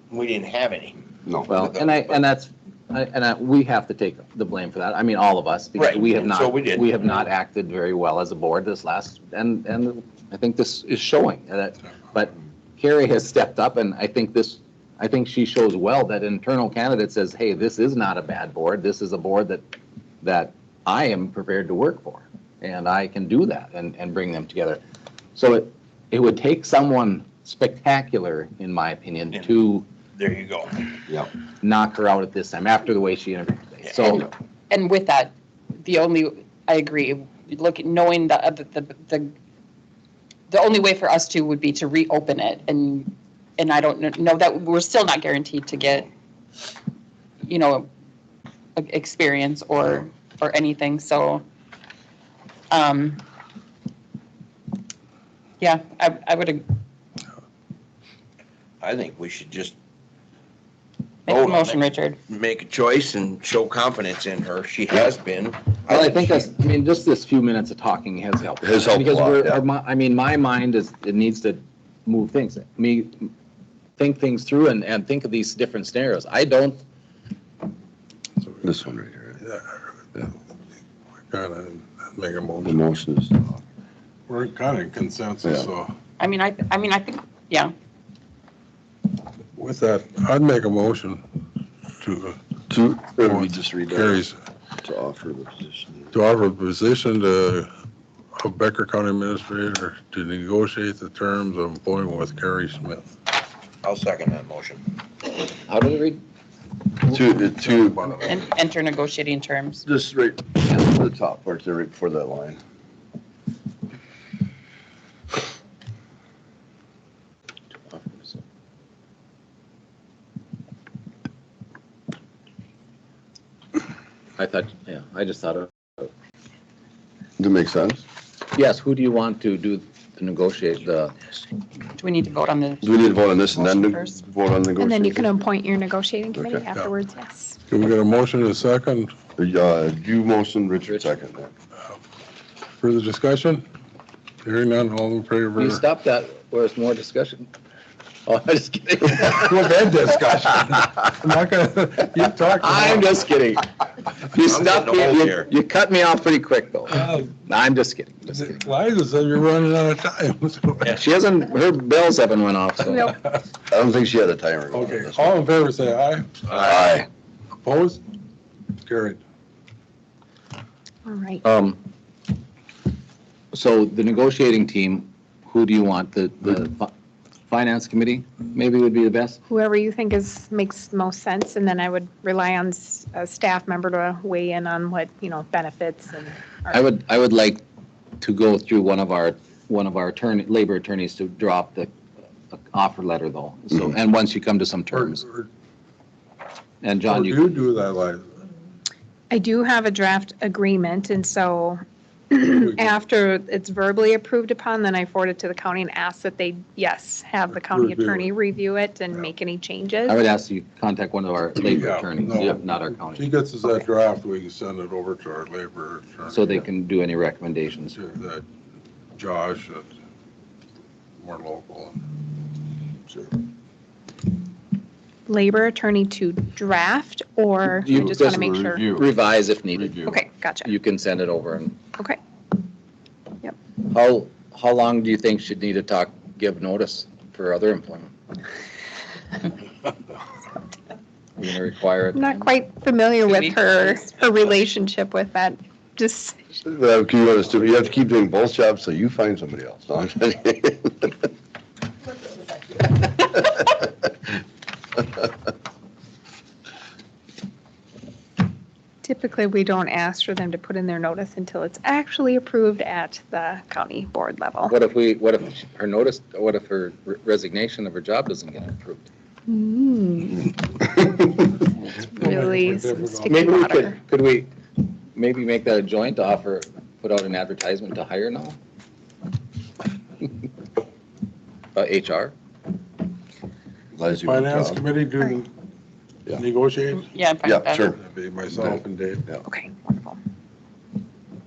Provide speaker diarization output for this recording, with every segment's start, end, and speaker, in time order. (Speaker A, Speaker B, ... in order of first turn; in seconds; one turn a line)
Speaker A: 0.1-2.2
Speaker B: 1.3-1.5
Speaker C: 1.5-19.6
Speaker A: 5.8-7.3
Speaker C: 20.2-24.8
Speaker C: 25.4-29.9
Speaker A: 30.2-30.9
Speaker C: 31.6-34.3
Speaker A: 33.9-34.2
Speaker D: 34.7-39.3
Speaker D: 40.5-46.1
Speaker D: 47.4-47.9
Speaker D: 48.8-51.4
Speaker D: 52.7-53.2
Speaker D: 55.6-56.7
Speaker A: 58.8-59.8
Speaker D: 61.3-62.2
Speaker A: 61.3-66.5
Speaker C: 65.9-73.3
Speaker B: 68.6-69.6
Speaker C: 74.0-76.8
Speaker B: 78.6-79.4
Speaker E: 81.3-82.8
Speaker B: 82.6-83.5
Speaker E: 84.3-85.9
Speaker D: 86.2-87.7
Speaker E: 89.6-91.2
Speaker E: 92.0-92.4
Speaker B: 92.7-94.2
Speaker E: 93.2-94.3
Speaker B: 94.8-96.1
Speaker E: 96.1-97.7
Speaker E: 98.4-103.1
Speaker A: 103.8-104.8
Speaker C: 105.7-106.2
Speaker B: 107.1-108.0
Speaker E: 107.5-108.3
Speaker D: 108.3-109.8
Speaker B: 109.8-112.6
Speaker C: 117.9-118.4
Speaker C: 124.4-126.1
Speaker B: 127.4-128.0
Speaker C: 128.5-131.3
Speaker D: 132.0-134.2
Speaker B: 132.8-135.4
Speaker F: 134.8-137.6
Speaker B: 136.3-136.7
Speaker E: 137.7-139.2
Speaker B: 139.4-141.5
Speaker E: 142.8-143.7
Speaker E: 144.4-145.8
Speaker C: 145.6-147.5
Speaker C: 148.3-149.8
Speaker E: 149.3-153.2
Speaker C: 152.6-153.7
Speaker C: 154.2-158.6
Speaker A: 154.4-155.5
Speaker E: 156.9-157.3
Speaker E: 158.3-160.9
Speaker C: 160.9-163.2
Speaker E: 162.9-163.3
Speaker B: 163.7-165.4
Speaker E: 164.7-166.6
Speaker A: 166.5-167.0
Speaker B: 166.6-167.1
Speaker E: 167.6-168.0
Speaker E: 168.9-169.2
Speaker F: 171.1-171.4
Speaker C: 171.4-171.8
Speaker C: 173.5-176.9
Speaker C: 177.5-179.4
Speaker F: 179.5-186.8
Speaker C: 186.7-187.6
Speaker C: 188.2-191.9
Speaker C: 192.5-195.2
Speaker E: 194.9-195.5
Speaker C: 196.8-197.6
Speaker E: 197.1-198.4
Speaker F: 199.3-201.8
Speaker F: 202.3-210.2
Speaker E: 202.6-202.9
Speaker E: 207.5-208.3
Speaker C: 210.1-213.3
Speaker E: 211.6-216.7
Speaker C: 216.3-218.0
Speaker E: 217.9-218.4
Speaker E: 219.2-219.9
Speaker E: 221.2-222.0
Speaker F: 225.3-228.8
Speaker B: 227.8-229.1
Speaker C: 227.8-230.1
Speaker B: 229.8-230.2
Speaker F: 230.1-230.7
Speaker C: 230.6-231.8
Speaker C: 233.8-238.1
Speaker C: 241.4-242.5
Speaker F: 242.2-246.5
Speaker D: 243.3-243.9
Speaker B: 246.6-251.2
Speaker F: 259.0-264.8
Speaker C: 264.7-269.1
Speaker F: 269.5-271.4
Speaker E: 272.1-273.5
Speaker F: 272.2-274.0
Speaker C: 273.3-274.5
Speaker C: 275.2-278.6
Speaker C: 281.8-282.3
Speaker B: 283.9-284.8
Speaker E: 284.2-285.5
Speaker E: 286.3-287.1
Speaker D: 287.1-287.9
Speaker B: 287.4-288.0
Speaker E: 288.0-289.3
Speaker B: 288.5-289.4
Speaker F: 289.4-290.2